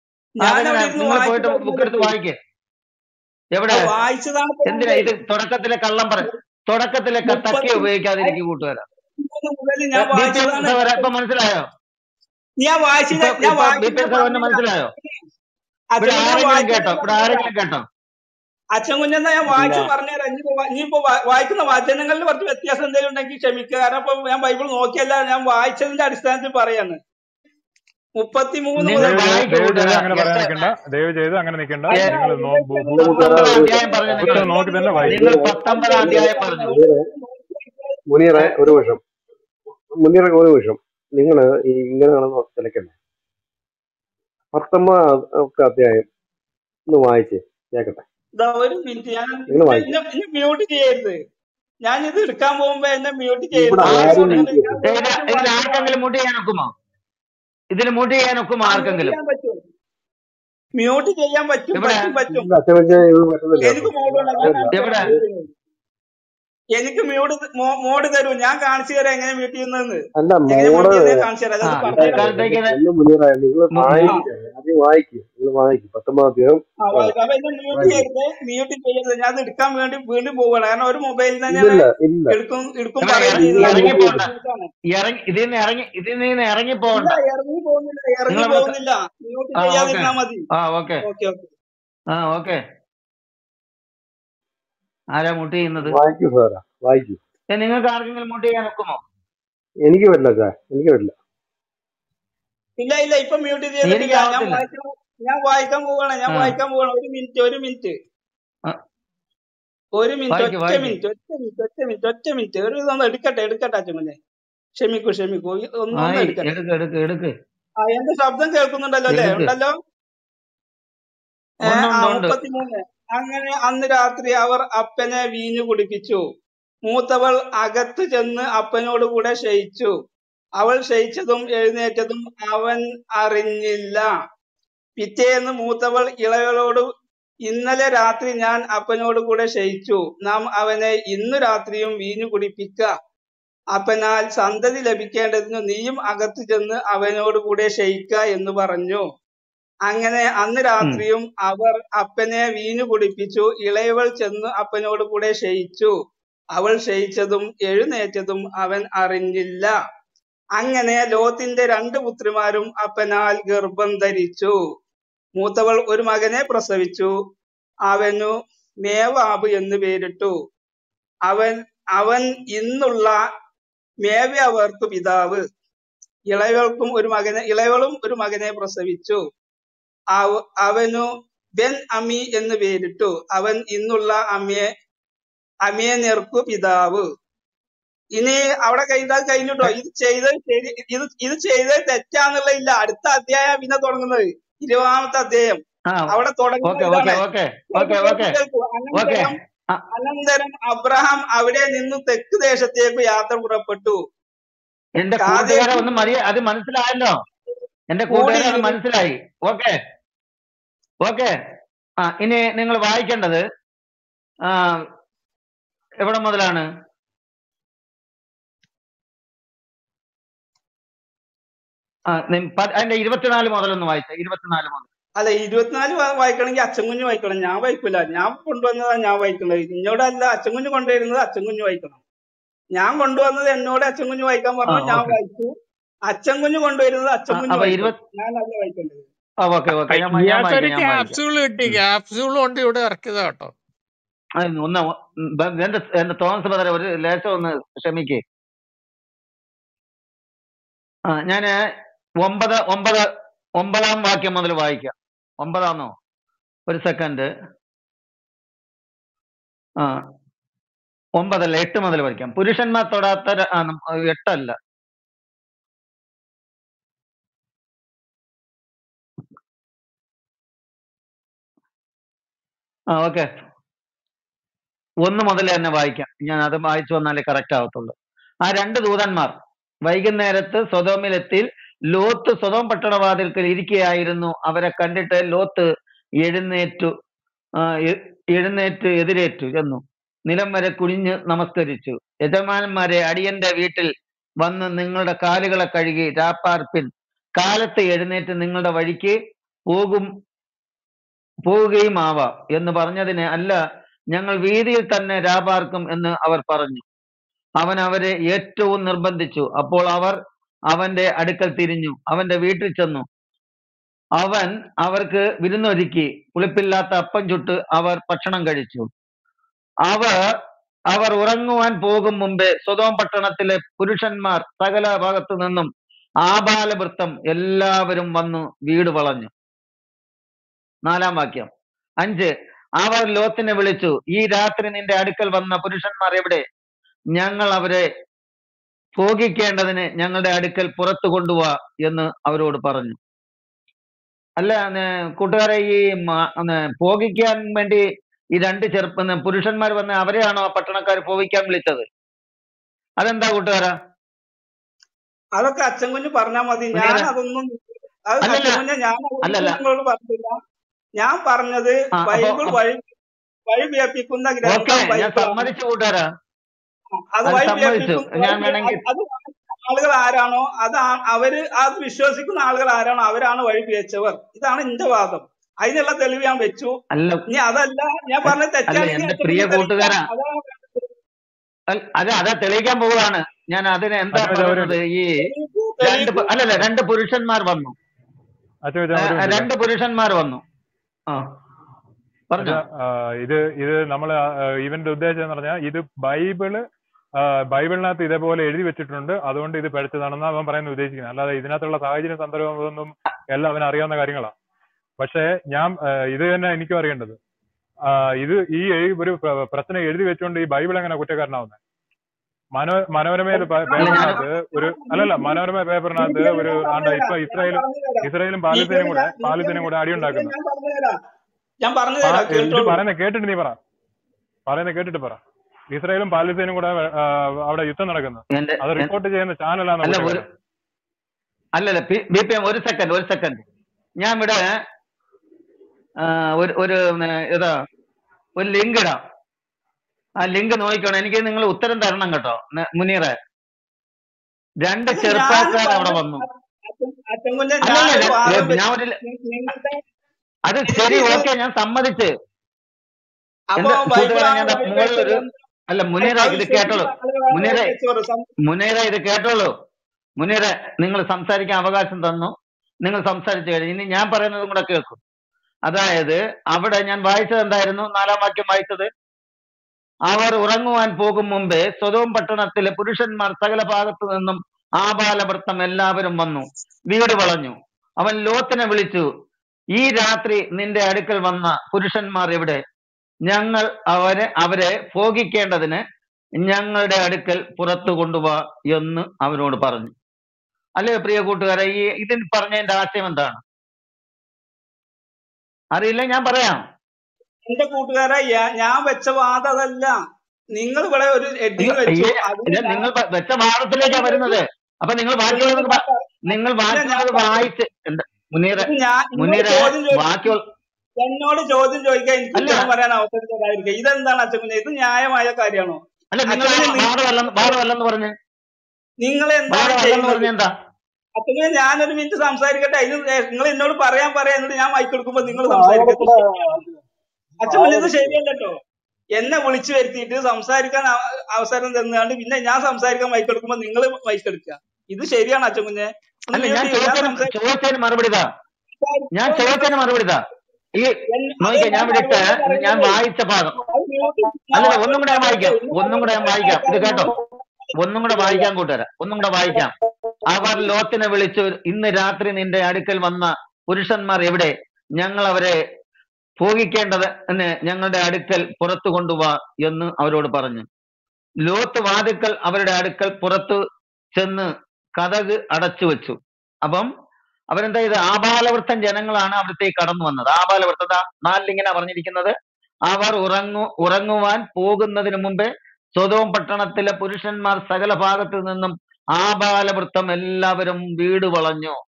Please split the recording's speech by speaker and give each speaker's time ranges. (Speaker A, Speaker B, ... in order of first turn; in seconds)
Speaker A: 0.4-2.1, 3.7-5.1, 7.2-8.4, 9.2-11.1, 12.6-15.2, 15.9-17.5, 18.7-27.0, 28.2-29.4, 31.9-38.0, 48.4-51.2, 51.8-55.9, 58.6-59.6, 60.8-63.0, 63.6-65.5, 66.7-72.3, 76.8-84.7, 86.9-90.4, 91.0-91.5, 102.8-107.9, 110.0-114.2, 114.8-116.5, 117.8-119.7, 121.6-126.2, 126.8-129.9, 130.6-134.2, 135.0-136.9, 137.4-142.9, 143.7-149.0, 149.8-155.9, 156.5-159.8, 160.6-164.6, 165.4-167.1, 167.9-170.3, 171.2-173.2, 174.0-175.4, 176.3-179.2, 180.1-184.7, 185.6-187.1, 188.1-197.2, 197.7-199.4, 199.9-204.0, 205.2-205.9, 208.1-208.8, 225.2-232.0, 232.8-235.5, 236.1-239.1, 355.4-360.4, 361.0-362.9, 363.5-365.5, 367.1-376.7, 377.3-380.9, 385.2-386.3, 413.3-415.4, 415.9-420.9, 421.6-422.8, 444.9-449.8, 450.7-451.2, 453.5-455.3, 456.0-458.3, 497.4-500.0, 500.5-502.9, 503.8-504.4, 505.3-507.5, 508.6-510.3, 511.0-517.5, 519.0-520.3, 521.2-526.6, 527.4-528.6, 529.1-537.3, 538.8-539.8, 541.1-543.0, 543.7-548.5
Speaker B: 0.4-2.4, 3.5-3.9, 4.7-8.8, 9.9-11.7, 13.1-14.9, 16.0-17.9, 19.5-19.9, 28.8-30.7, 33.0-34.4, 35.1-36.8, 53.8-56.7, 57.7-59.2, 61.7-62.1, 64.7-65.1, 71.6-72.8, 73.7-74.2, 83.0-84.3, 84.9-87.2, 88.3-88.7, 89.6-91.0, 92.1-92.6, 95.1-96.0, 97.5-99.0, 103.8-104.6, 106.3-106.6, 110.3-111.0, 115.9-117.3, 119.1-119.5, 121.6-122.4, 196.6-198.4, 198.9-199.8, 205.0-207.1, 207.9-209.8, 211.0-211.3, 212.0-213.4, 214.4-214.8, 216.0-216.6, 222.1-224.9, 234.7-235.2, 237.3-237.9, 239.4-241.8, 244.4-248.2, 251.1-251.5, 252.2-253.0, 253.6-255.9, 256.7-257.3, 261.2-264.5, 272.9-273.3, 275.0-277.9, 278.4-279.3, 279.9-285.7, 286.2-286.9, 287.6-293.9, 294.4-299.1, 299.7-300.1, 301.4-303.6, 304.1-306.8, 307.6-310.2, 310.7-313.1, 314.2-318.9, 319.9-320.1, 320.9-325.7, 326.2-329.3, 330.9-331.5, 332.0-336.4, 337.1-337.8, 339.0-343.0, 344.4-347.8, 348.4-351.9, 353.0-353.7, 356.7-357.1, 358.2-358.6, 359.2-359.6, 362.0-362.6, 364.4-366.1, 367.2-368.8, 376.9-377.2, 378.2-380.1, 381.7-385.3, 385.8-387.8, 388.9-390.4, 392.3-392.6, 413.8-414.2, 428.3-428.9, 429.8-430.2, 431.5-433.4, 434.0-434.4, 436.0-437.5, 438.4-439.0, 440.2-443.1, 444.6-446.2, 447.6-448.9, 450.4-452.1, 453.6-457.7, 458.4-459.5, 460.2-465.0, 465.7-468.9, 470.1-479.1, 479.8-482.6, 483.3-485.8, 486.4-489.9, 490.8-493.4, 495.8-496.6, 501.6-510.4, 512.4-512.7, 516.1-518.1, 519.5-520.5, 536.3-538.3, 539.1-540.2, 540.8-543.6, 544.5-547.1, 547.8-549.7, 550.3-555.5, 556.4-560.6, 561.4-563.6, 564.1-566.9, 567.5-572.3, 572.9-581.8
Speaker C: 29.1-33.1, 34.2-35.1, 384.1-384.8, 388.6-389.5, 392.4-396.6, 397.2-404.3, 405.0-407.1, 407.9-411.6, 412.5-420.3, 422.0-423.6, 424.4-425.2, 425.7-430.3
Speaker D: 33.0-34.5, 35.0-37.0, 38.1-39.0, 39.9-42.9, 44.5-46.0, 46.9-48.0, 49.5-50.0, 53.5-54.8, 62.3-65.2, 70.2-71.2, 71.9-77.1, 77.7-78.1, 81.5-82.4, 83.3-84.3, 95.8-97.2, 99.8-101.1, 525.2-526.8, 527.5-528.2
Speaker E: 239.9-243.5